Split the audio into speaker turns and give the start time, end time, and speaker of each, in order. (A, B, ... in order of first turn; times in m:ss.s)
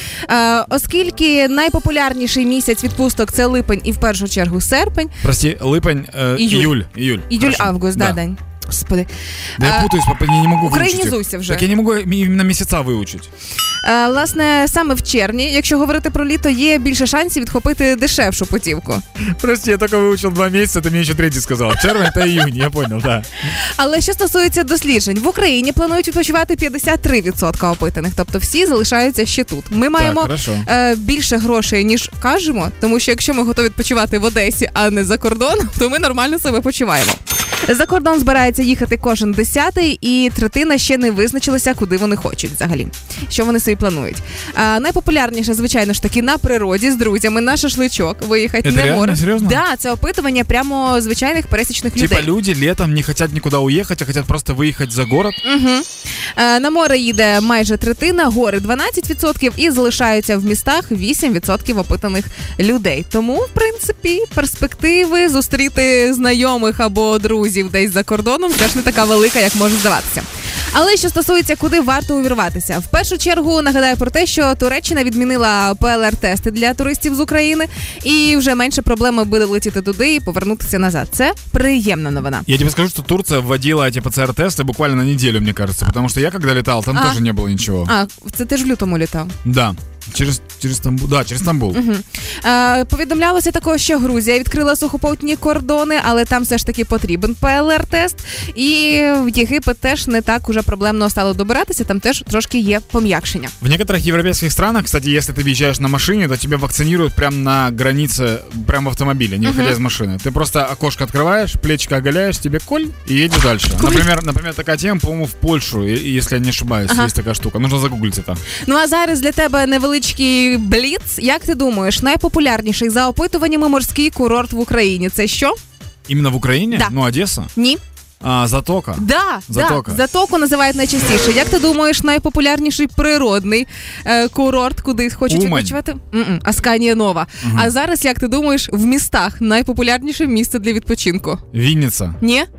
0:00.3-0:05.1 A
0:05.2-0:08.2 B
0:06.3-0:06.7 A
0:07.3-0:09.9 A
0:09.6-0:13.3 B
0:10.6-0:11.7 A
0:13.8-0:19.0 A
0:19.3-0:23.6 B
0:23.4-0:52.3 A
0:30.0-0:30.7 B
0:48.6-0:49.6 B
0:52.0-0:55.4 B
0:55.4-1:22.4 A
1:22.4-1:27.9 B
1:26.9-1:27.2 A
1:27.8-1:29.3 A
1:29.4-1:31.8 B
1:31.7-1:43.5 A
1:43.6-1:58.4 B
1:49.4-1:49.8 A
1:53.8-1:54.1 A
1:56.9-1:57.1 A
1:58.6-2:05.6 A
2:06.1-2:07.5 B
2:07.5-2:07.8 A
2:08.2-2:10.0 B
2:09.0-2:21.4 A
2:15.3-2:15.8 B
2:17.4-2:17.7 B
2:21.5-2:22.2 B
2:22.2-2:22.5 A